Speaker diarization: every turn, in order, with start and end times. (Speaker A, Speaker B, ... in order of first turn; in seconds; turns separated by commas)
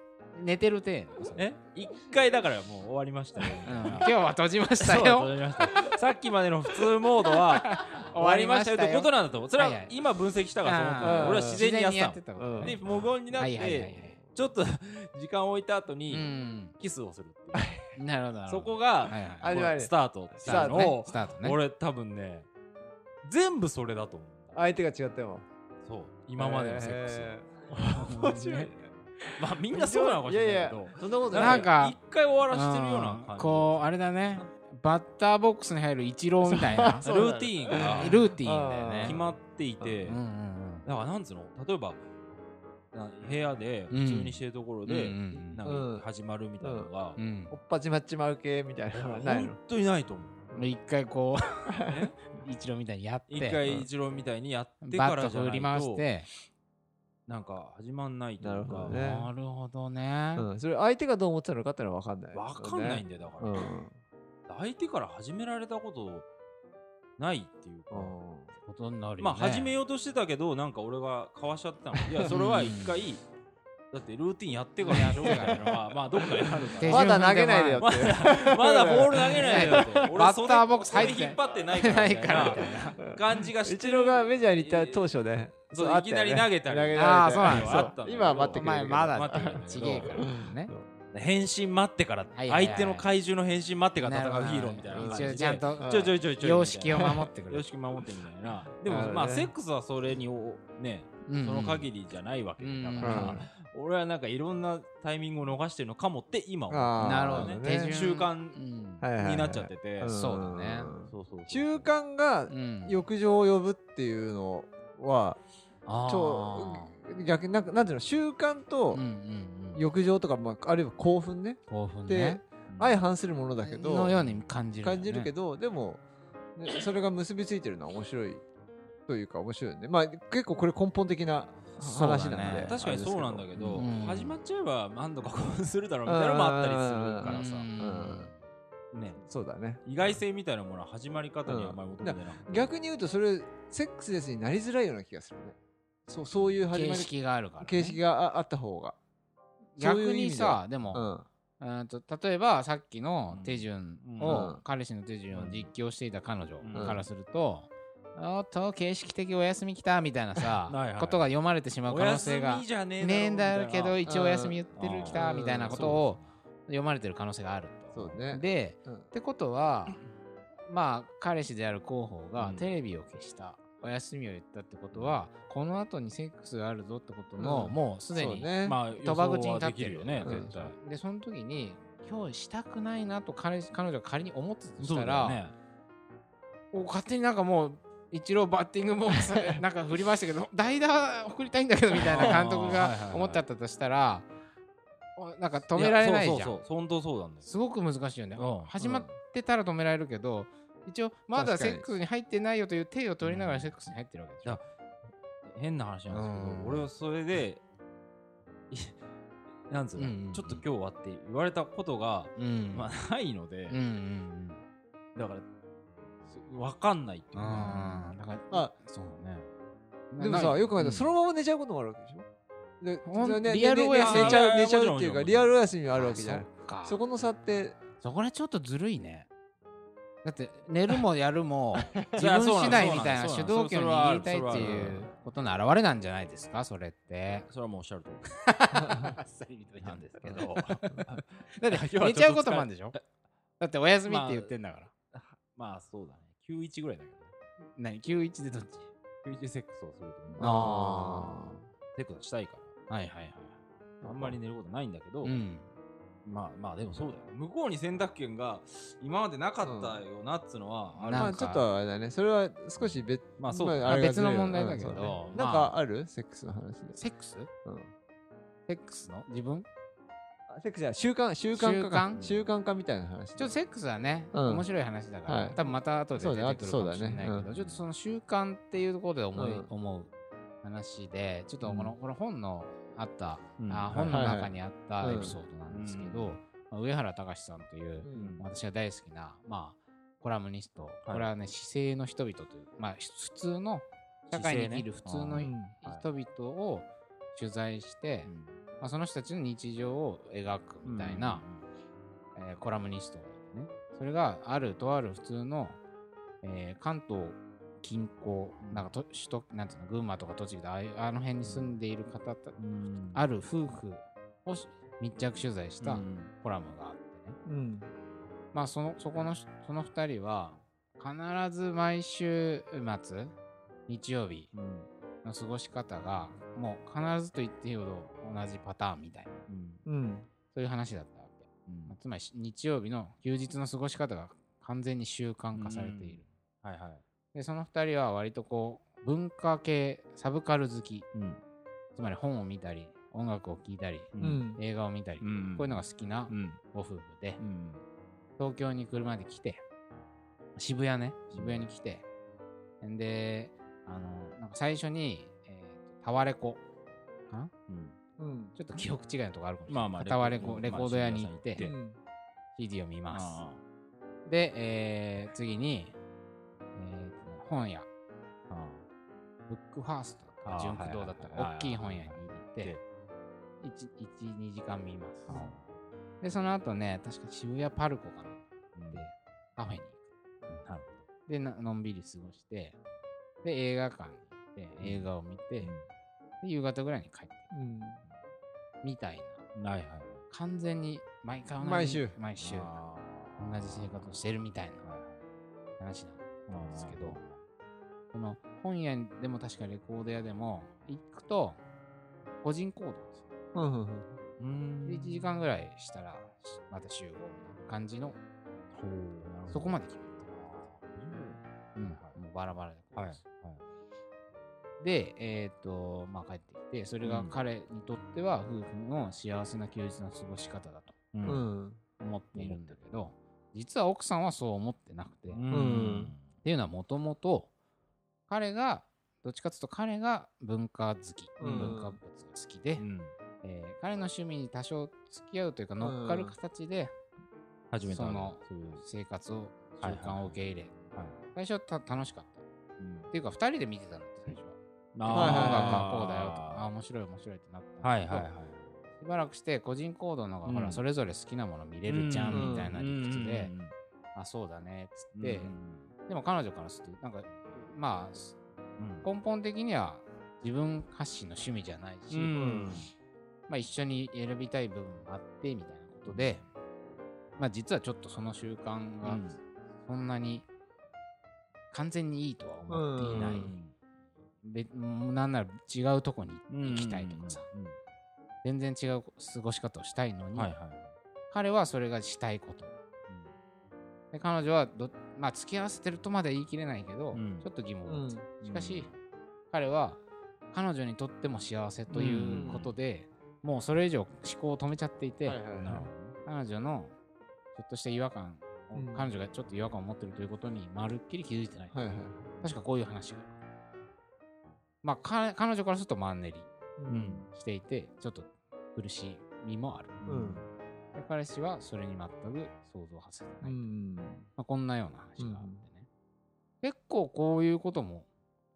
Speaker A: 0.3-1.4, Speaker B: 1.4-4.1, Speaker A: 3.6-5.9, Speaker B: 4.8-17.7, Speaker A: 7.2-9.9, Speaker A: 10.6-12.8, Speaker C: 11.0-11.6, Speaker C: 12.4-12.8, Speaker A: 13.3-14.2, Speaker C: 13.6-14.3, Speaker A: 16.1-16.8, Speaker C: 17.5-17.9, Speaker A: 18.0-19.7, Speaker B: 18.5-22.5, Speaker C: 19.4-20.9, Speaker A: 20.4-21.6, Speaker B: 23.2-24.6, Speaker C: 24.5-25.4, Speaker B: 25.8-28.7, Speaker C: 26.4-28.9, Speaker B: 29.4-33.9, Speaker C: 29.7-31.7, Speaker A: 31.4-32.0, Speaker A: 32.5-37.1, Speaker C: 36.5-39.2, Speaker B: 37.0-38.3, Speaker A: 37.7-39.2, Speaker B: 39.0-40.2, Speaker A: 40.0-40.9, Speaker B: 40.9-42.0, Speaker B: 42.9-47.2, Speaker A: 43.9-45.7, Speaker C: 45.6-46.1, Speaker C: 46.6-46.9, Speaker A: 47.2-47.6, Speaker C: 47.5-49.6, Speaker B: 48.9-50.5, Speaker A: 50.5-53.8, Speaker B: 51.9-52.1, Speaker B: 53.3-56.0, Speaker A: 54.8-56.3, Speaker B: 57.3-59.0, Speaker C: 58.4-59.3, Speaker A: 58.9-60.5, Speaker C: 60.4-64.0, Speaker B: 62.3-63.8, Speaker B: 64.5-66.3, Speaker B: 67.2-68.2, Speaker C: 67.9-68.5, Speaker A: 68.6-69.8, Speaker B: 69.2-73.2, Speaker C: 72.0-72.3, Speaker A: 72.3-73.0, Speaker B: 73.9-77.3, Speaker A: 74.8-75.8, Speaker C: 75.0-75.6, Speaker A: 76.5-78.0, Speaker C: 76.8-80.0, Speaker B: 77.8-85.1, Speaker A: 79.3-83.0, Speaker C: 83.6-90.8, Speaker B: 85.7-90.3, Speaker A: 87.0-88.0, Speaker A: 88.5-90.7, Speaker B: 91.1-108.6, Speaker A: 92.3-93.1, Speaker A: 94.0-97.7, Speaker C: 94.9-96.2, Speaker C: 98.8-99.5, Speaker A: 101.3-101.9, Speaker A: 102.6-103.4, Speaker C: 103.0-103.5, Speaker C: 106.7-107.9, Speaker A: 107.0-109.0, Speaker C: 109.0-115.4, Speaker B: 109.1-110.1, Speaker A: 110.1-110.9, Speaker B: 111.1-111.9, Speaker A: 112.5-113.1, Speaker A: 115.9-117.0, Speaker C: 116.1-119.0, Speaker A: 118.9-119.8, Speaker C: 119.8-124.2, Speaker A: 121.7-122.4, Speaker B: 122.7-123.0, Speaker A: 123.6-125.3, Speaker C: 124.8-126.0, Speaker C: 126.6-128.4, Speaker C: 129.1-133.9, Speaker A: 131.8-132.8, Speaker B: 132.4-137.7, Speaker A: 133.8-134.4, Speaker C: 136.1-138.3, Speaker A: 137.2-138.4, Speaker B: 138.9-139.2, Speaker C: 139.2-140.2, Speaker B: 139.8-142.7, Speaker C: 141.5-145.6, Speaker C: 146.1-149.0, Speaker A: 146.7-148.0, Speaker A: 149.8-151.1, Speaker C: 149.8-151.3, Speaker A: 151.6-170.0, Speaker B: 153.3-154.5, Speaker C: 154.2-154.6, Speaker B: 155.3-155.7, Speaker B: 156.6-157.1, Speaker C: 156.7-157.0, Speaker B: 160.7-161.3, Speaker B: 161.9-164.0, Speaker C: 164.1-166.0, Speaker B: 164.8-166.3, Speaker C: 167.9-169.1, Speaker A: 170.7-185.4, Speaker B: 172.4-172.7, Speaker B: 174.9-175.2, Speaker C: 177.4-178.8, Speaker B: 178.6-180.7, Speaker C: 180.2-180.5, Speaker B: 184.8-185.5, Speaker A: 186.7-194.3, Speaker C: 189.3-189.6, Speaker B: 192.1-193.4, Speaker A: 195.2-196.6, Speaker B: 195.7-197.5, Speaker A: 197.4-204.6, Speaker B: 198.4-198.7, Speaker C: 198.8-199.2, Speaker C: 201.3-202.0, Speaker B: 203.2-203.8, Speaker B: 205.5-207.6, Speaker A: 206.1-206.9, Speaker B: 208.7-209.0, Speaker B: 209.7-213.8, Speaker A: 210.0-210.7, Speaker A: 212.4-212.9, Speaker A: 213.7-214.6, Speaker B: 215.2-215.5, Speaker B: 216.3-218.2, Speaker A: 217.3-219.5, Speaker A: 220.1-221.2, Speaker C: 220.2-222.3, Speaker C: 222.8-227.8, Speaker A: 223.1-224.5, Speaker B: 223.9-225.6, Speaker A: 225.9-227.0, Speaker A: 228.0-229.3, Speaker A: 230.2-237.5, Speaker C: 231.8-233.2, Speaker B: 232.2-235.1, Speaker C: 234.5-235.1, Speaker B: 237.3-238.3, Speaker A: 238.2-241.0, Speaker C: 238.9-239.1, Speaker B: 239.8-243.0, Speaker A: 241.6-243.0, Speaker A: 243.6-244.9, Speaker B: 244.1-244.5, Speaker B: 245.1-247.3, Speaker A: 247.8-248.9, Speaker B: 249.2-250.7, Speaker C: 250.4-251.7, Speaker A: 250.4-251.5, Speaker B: 251.9-252.7, Speaker A: 252.9-253.6, Speaker C: 254.0-254.4, Speaker B: 254.0-255.4, Speaker A: 255.2-255.7, Speaker B: 256.3-261.6, Speaker C: 259.6-260.0, Speaker A: 260.9-261.7, Speaker C: 261.1-267.0, Speaker B: 262.8-264.0, Speaker A: 263.8-265.8, Speaker B: 264.6-265.4, Speaker A: 266.9-267.5, Speaker C: 267.6-267.9, Speaker A: 268.7-269.7, Speaker C: 270.5-273.6, Speaker A: 271.5-272.2, Speaker B: 272.1-272.5, Speaker A: 273.4-301.4, Speaker C: 274.3-274.7, Speaker C: 275.3-275.6, Speaker C: 276.1-277.5, Speaker B: 277.3-277.8, Speaker C: 279.3-279.7, Speaker C: 281.6-281.9, Speaker B: 283.6-284.4, Speaker C: 284.1-285.4, Speaker B: 285.2-286.4, Speaker C: 288.0-288.4, Speaker B: 288.1-288.4, Speaker B: 294.3-296.1, Speaker C: 295.4-295.7, Speaker B: 298.2-298.6, Speaker B: 300.9-301.6, Speaker A: 302.4-305.8, Speaker A: 306.4-312.6, Speaker B: 308.6-308.9, Speaker B: 311.4-311.8, Speaker B: 312.6-313.2, Speaker A: 313.1-317.4, Speaker B: 315.4-316.3, Speaker C: 317.5-317.9, Speaker A: 318.5-323.4, Speaker A: 323.9-324.5, Speaker B: 324.5-324.9, Speaker A: 325.2-329.4, Speaker B: 329.5-329.8, Speaker C: 329.9-330.3, Speaker A: 330.5-336.3, Speaker B: 331.7-332.0, Speaker B: 335.5-337.0, Speaker A: 337.3-341.1, Speaker B: 341.1-341.4, Speaker A: 341.9-347.4, Speaker B: 344.1-344.5, Speaker C: 344.2-344.6, Speaker B: 345.2-346.6, Speaker B: 347.4-347.8, Speaker A: 348.4-349.6, Speaker A: 350.6-352.1, Speaker B: 351.3-351.7, Speaker A: 352.8-356.6, Speaker B: 357.7-358.0, Speaker C: 358.2-358.6, Speaker A: 358.6-361.7, Speaker B: 359.7-361.8, Speaker C: 361.6-362.0, Speaker A: 362.6-363.4, Speaker B: 363.1-363.6, Speaker A: 364.2-366.0, Speaker A: 366.8-367.9, Speaker B: 368.5-368.8, Speaker A: 369.5-372.8, Speaker B: 370.4-372.8, Speaker A: 373.6-375.5, Speaker B: 375.3-375.7, Speaker A: 376.2-380.0, Speaker B: 378.8-379.1, Speaker B: 380.5-381.0, Speaker A: 381.3-382.8, Speaker A: 383.4-385.7, Speaker B: 384.8-385.9, Speaker A: 386.4-387.7, Speaker C: 387.5-388.0, Speaker A: 388.8-389.4, Speaker B: 389.6-390.2, Speaker A: 390.3-392.8, Speaker C: 391.6-392.2, Speaker B: 392.4-394.2, Speaker A: 393.4-394.8, Speaker B: 394.8-395.2, Speaker A: 395.8-397.2, Speaker B: 396.5-397.3, Speaker A: 398.1-401.6, Speaker A: 402.4-403.3, Speaker C: 403.5-404.1, Speaker B: 404.4-405.5, Speaker A: 404.9-408.2, Speaker B: 408.7-409.8, Speaker A: 409.5-410.3, Speaker B: 410.3-412.1, Speaker A: 411.8-413.2, Speaker B: 413.0-413.6, Speaker A: 414.8-421.0, Speaker B: 417.0-417.3, Speaker B: 421.1-421.4, Speaker C: 421.2-421.8, Speaker A: 422.0-425.5, Speaker B: 422.3-422.8, Speaker B: 425.3-426.3, Speaker C: 425.5-426.1, Speaker A: 426.4-427.5, Speaker A: 428.3-432.8, Speaker C: 431.4-432.0, Speaker B: 431.4-431.8, Speaker B: 432.8-433.1, Speaker A: 433.4-436.9, Speaker C: 435.8-436.4, Speaker B: 437.7-438.8, Speaker A: 437.9-440.8, Speaker B: 439.8-440.4, Speaker A: 441.4-442.4, Speaker B: 442.8-443.1, Speaker A: 443.1-448.3, Speaker B: 445.0-446.7, Speaker C: 445.1-445.9, Speaker B: 447.8-448.6, Speaker A: 449.0-453.5, Speaker B: 450.5-450.8, Speaker B: 451.9-453.7, Speaker C: 452.3-452.7, Speaker A: 454.1-455.5, Speaker B: 455.1-455.9, Speaker A: 456.1-458.4, Speaker B: 458.8-459.1, Speaker A: 459.0-462.4, Speaker B: 462.1-462.9, Speaker C: 462.3-462.8, Speaker A: 463.5-466.4, Speaker B: 466.1-466.4, Speaker A: 467.4-469.3, Speaker B: 469.0-469.4, Speaker A: 469.8-470.5, Speaker A: 471.7-473.5, Speaker C: 472.7-473.5, Speaker B: 473.1-473.7, Speaker A: 474.4-477.4, Speaker B: 476.5-477.8, Speaker A: 478.4-480.5, Speaker B: 480.4-480.9, Speaker A: 481.3-482.8, Speaker A: 484.1-488.9, Speaker B: 487.1-487.5, Speaker C: 487.9-488.3, Speaker B: 488.4-488.9, Speaker A: 489.5-490.0, Speaker A: 490.5-496.9, Speaker C: 491.9-492.7, Speaker B: 492.0-492.7, Speaker C: 495.2-495.9, Speaker B: 495.5-496.1, Speaker A: 497.6-503.4, Speaker C: 498.7-499.1, Speaker C: 501.7-502.3, Speaker A: 504.8-506.5, Speaker C: 506.8-507.3, Speaker B: 506.9-507.3, Speaker A: 507.3-510.4, Speaker B: 510.1-510.4, Speaker C: 510.1-510.4, Speaker A: 510.9-513.7, Speaker C: 513.4-514.3, Speaker A: 514.4-515.9, Speaker C: 515.2-515.6, Speaker A: 516.6-518.1